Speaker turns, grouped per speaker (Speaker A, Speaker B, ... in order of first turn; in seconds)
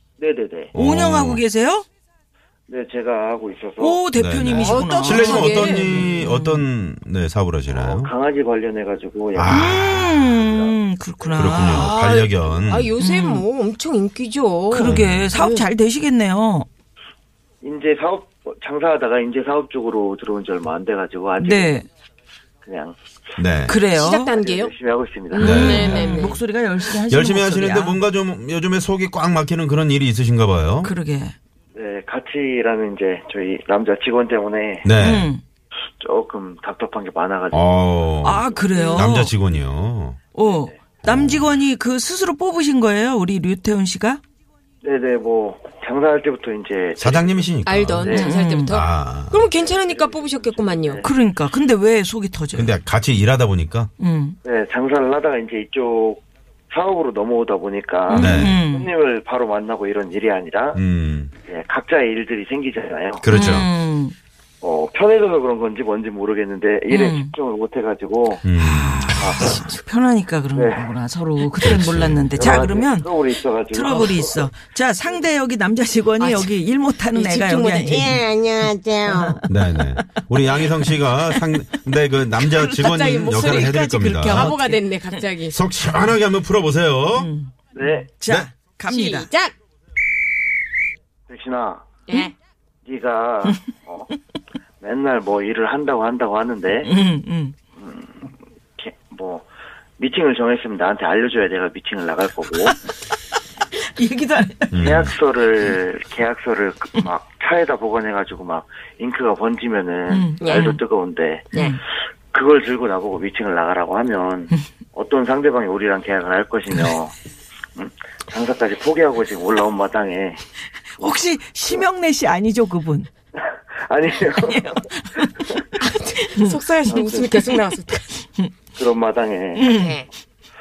Speaker A: 0.2-0.7, 2.7-4.0, 7.7-9.6, 10.3-11.6, 17.6-21.8, 22.6-23.0, 24.3-25.6, 31.8-34.9, 36.0-38.6, 44.8-47.4, 48.0-48.3, 49.4-51.1, 54.4-60.8, 61.5-63.2, 64.6-68.5, 69.2-69.7, 70.5-70.9, 72.3-74.5, 87.7-88.1, 91.3-92.0, 92.8-94.1, 94.8-96.9, 97.8-98.3, 98.8-99.5, 100.0-102.7, 104.8-111.6, 112.3-117.1, 117.8-120.4, 123.4-125.3, 126.9-127.5, 128.8-129.7
Speaker B: 0.7-1.4, 4.1-8.1, 9.3-10.3, 11.4-12.9, 14.8-15.3, 23.4-23.8, 25.4-26.3, 26.9-30.9, 34.8-35.3, 37.5-40.2, 41.0-41.5, 47.0-49.4, 52.5-53.9, 58.1-58.6, 60.8-61.3, 63.2-63.7, 68.4-69.3, 71.6-72.3, 79.5-84.6, 85.5-87.3, 104.7-105.1
Speaker C: 0.7-1.9, 3.8-6.7, 9.5-12.0, 13.0-13.4, 14.7-16.7, 21.4-21.9, 23.7-24.3, 25.3-28.0, 30.8-31.4, 35.0-35.4, 38.2-39.3, 40.3-44.2, 48.1-48.8, 51.0-52.7, 54.0-54.4, 58.1-58.9, 63.3-64.2, 66.9-67.3, 68.6-73.1, 73.6-78.2, 79.1-81.5, 83.3-84.8, 85.8-86.2, 87.1-89.3, 96.8-97.6, 103.7-105.1, 110.1-110.8, 111.5-111.8, 121.0-123.1, 124.3-125.7, 129.6-130.0
Speaker D: 4.5-6.0, 11.6-15.7, 23.9-24.7, 25.4-26.4, 38.8-39.0, 47.6-51.1, 76.2-76.5, 77.1-79.4, 82.5-85.6, 88.9-89.5, 92.1-92.3, 110.4-110.8, 125.8-128.1, 129.7-130.1